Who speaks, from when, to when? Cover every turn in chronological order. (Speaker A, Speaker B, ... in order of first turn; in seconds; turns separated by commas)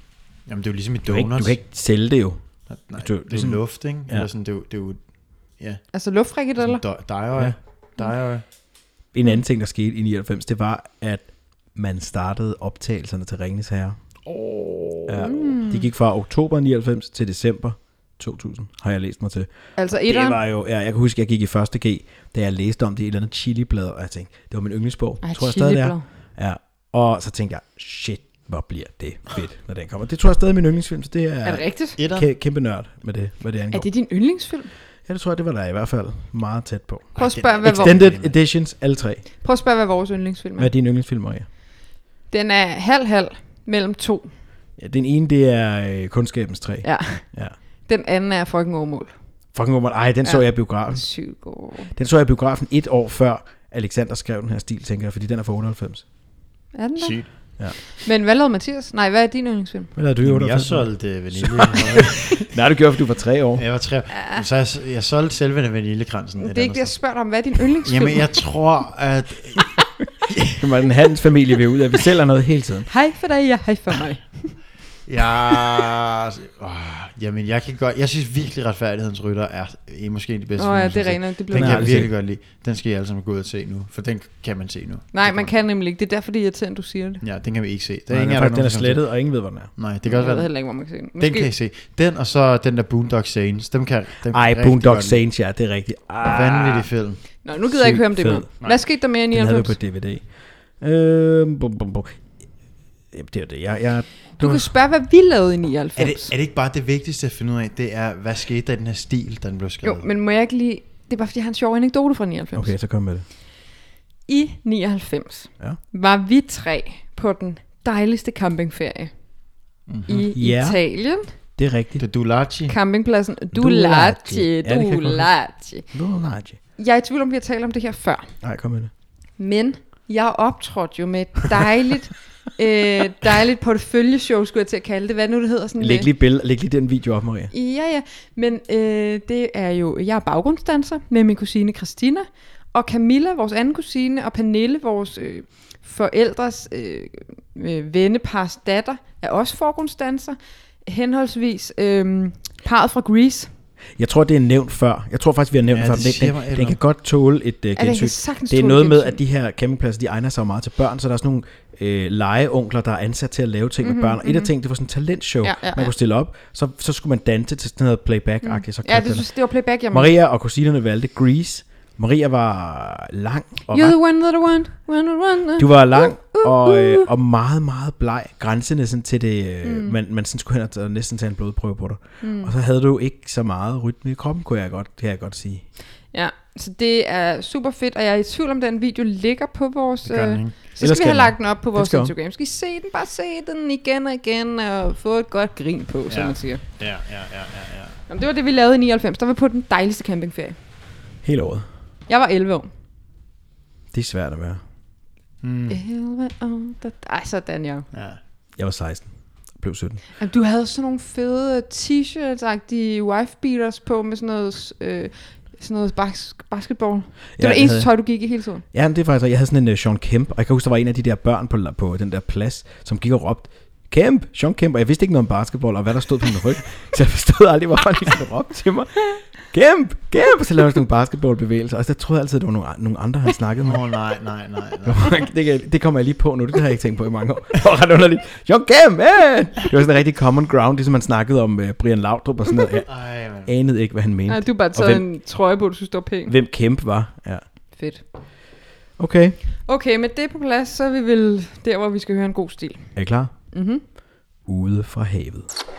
Speaker A: 0.5-1.6, Speaker B: 1.0-2.4, Speaker A: 2.7-5.0, Speaker B: 3.0-4.3, Speaker C: 5.9-6.8, Speaker A: 6.6-8.4, Speaker B: 9.1-14.0, Speaker B: 15.0-19.5, Speaker C: 15.2-15.8, Speaker C: 19.8-20.4, Speaker B: 20.0-33.9, Speaker C: 25.2-26.0, Speaker C: 31.4-32.0, Speaker A: 32.0-32.3, Speaker C: 33.7-34.7, Speaker B: 35.1-39.2, Speaker A: 37.1-38.3, Speaker C: 37.2-38.0, Speaker C: 39.4-40.7, Speaker B: 40.6-41.5, Speaker C: 42.3-44.3, Speaker B: 44.8-47.5, Speaker C: 46.8-47.3, Speaker C: 47.9-49.1, Speaker B: 49.5-51.1, Speaker C: 50.2-51.9, Speaker B: 51.9-56.0, Speaker C: 56.7-59.9, Speaker A: 57.0-57.3, Speaker B: 60.0-63.6, Speaker A: 60.2-62.5, Speaker A: 63.5-67.0, Speaker C: 64.1-64.5, Speaker C: 66.4-68.3, Speaker A: 67.8-69.7, Speaker A: 70.3-70.6, Speaker B: 70.5-72.9, Speaker C: 72.9-74.6, Speaker A: 75.0-85.5, Speaker C: 80.6-82.0, Speaker B: 81.5-82.1, Speaker C: 85.1-87.2, Speaker A: 87.2-89.1, Speaker B: 88.1-89.7, Speaker A: 89.8-95.2, Speaker C: 90.0-91.5, Speaker B: 94.3-96.9, Speaker A: 96.2-97.2, Speaker C: 97.4-99.8, Speaker B: 97.6-98.5, Speaker B: 99.3-102.2, Speaker B: 103.1-104.7, Speaker C: 104.4-106.3, Speaker A: 106.0-110.0, Speaker C: 109.8-112.7, Speaker B: 112.5-113.2, Speaker C: 114.3-119.1, Speaker A: 119.9-120.2, Speaker C: 120.1-121.3, Speaker B: 120.3-120.8, Speaker B: 121.5-122.0, Speaker A: 122.0-122.7, Speaker C: 122.7-125.8, Speaker B: 123.5-125.3, Speaker B: 125.9-126.6, Speaker C: 126.8-128.3, Speaker B: 128.4-128.9, Speaker C: 129.4-136.1, Speaker B: 135.8-137.5, Speaker C: 137.5-153.5, Speaker B: 154.0-169.3, Speaker A: 155.7-156.8, Speaker C: 157.8-159.2, Speaker C: 163.8-164.5, Speaker C: 165.4-165.9, Speaker C: 168.4-170.1, Speaker B: 169.9-174.0, Speaker C: 173.7-177.1, Speaker B: 175.6-185.6, Speaker C: 179.6-179.9, Speaker C: 182.2-182.5, Speaker C: 186.1-196.6, Speaker A: 190.0-190.6, Speaker B: 190.8-192.1, Speaker A: 196.1-198.0, Speaker C: 198.1-200.6, Speaker B: 201.2-201.7, Speaker C: 202.1-202.7, Speaker B: 203.9-204.6, Speaker A: 205.4-205.8, Speaker C: 205.7-207.8, Speaker A: 207.9-208.2, Speaker B: 208.6-210.0, Speaker C: 210.2-218.6, Speaker B: 217.4-218.1, Speaker B: 218.7-233.8, Speaker A: 233.6-235.2, Speaker B: 234.8-242.9, Speaker A: 242.9-243.5, Speaker B: 243.4-245.0, Speaker C: 244.3-246.3, Speaker B: 246.3-247.4, Speaker C: 247.7-248.0, Speaker B: 249.0-249.4, Speaker C: 249.7-252.9, Speaker B: 252.9-253.3, Speaker C: 253.5-253.8, Speaker B: 254.4-255.5